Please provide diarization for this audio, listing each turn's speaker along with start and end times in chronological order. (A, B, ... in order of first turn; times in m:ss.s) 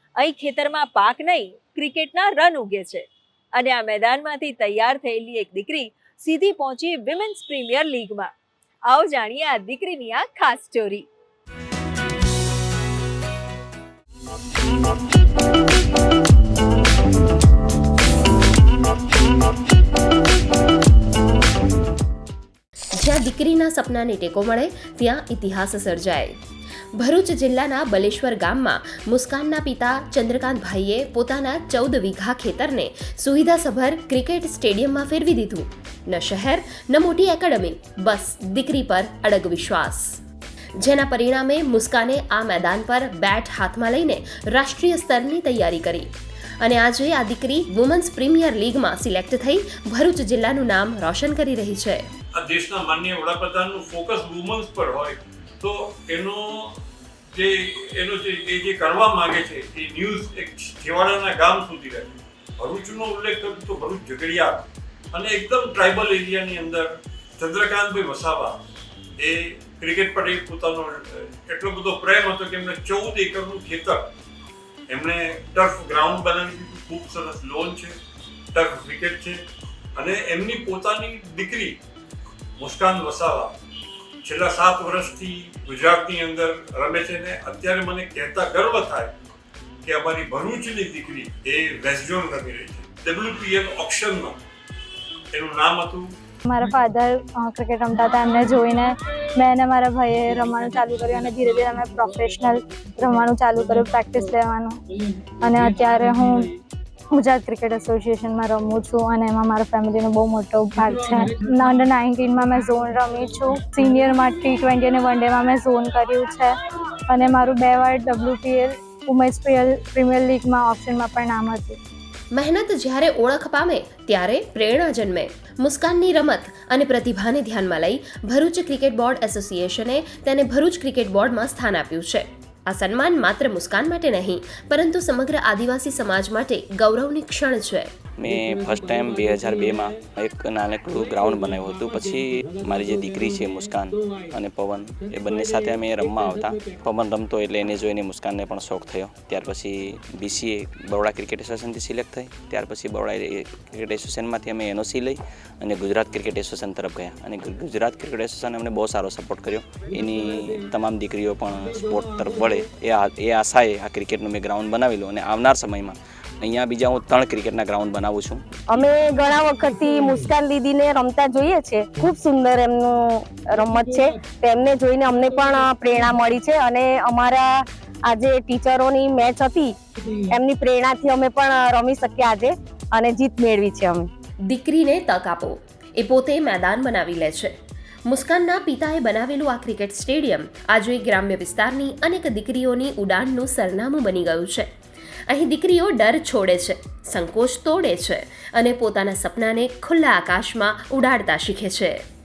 0:00.2-0:03.0 A
0:03.6-0:08.3 A
0:08.9-0:11.0 A
0:22.9-0:26.4 B
0:26.9-0:40.2 B
0:40.8-0:46.1 B
0:46.6-0:52.0 B
0:52.4-0:56.8 C
0:57.3-1:08.6 C
1:09.2-1:14.1 C
1:14.9-1:18.0 C
1:18.5-1:19.4 C
1:20.0-1:21.8 C
1:22.6-1:23.5 C
1:24.2-1:29.1 C
1:29.8-1:34.4 C
1:35.3-1:36.1 C
1:36.4-1:44.8 D
1:45.4-1:46.5 D
1:47.1-1:56.5 D
1:57.1-2:01.8 D
2:02.3-2:17.9 B
2:18.2-2:48.4 E
2:48.7-2:57.5 F
2:58.1-2:59.7 F
3:00.3-3:04.1 F
3:04.5-3:07.5 B
3:08.1-3:14.7 B
3:15.3-3:22.0 B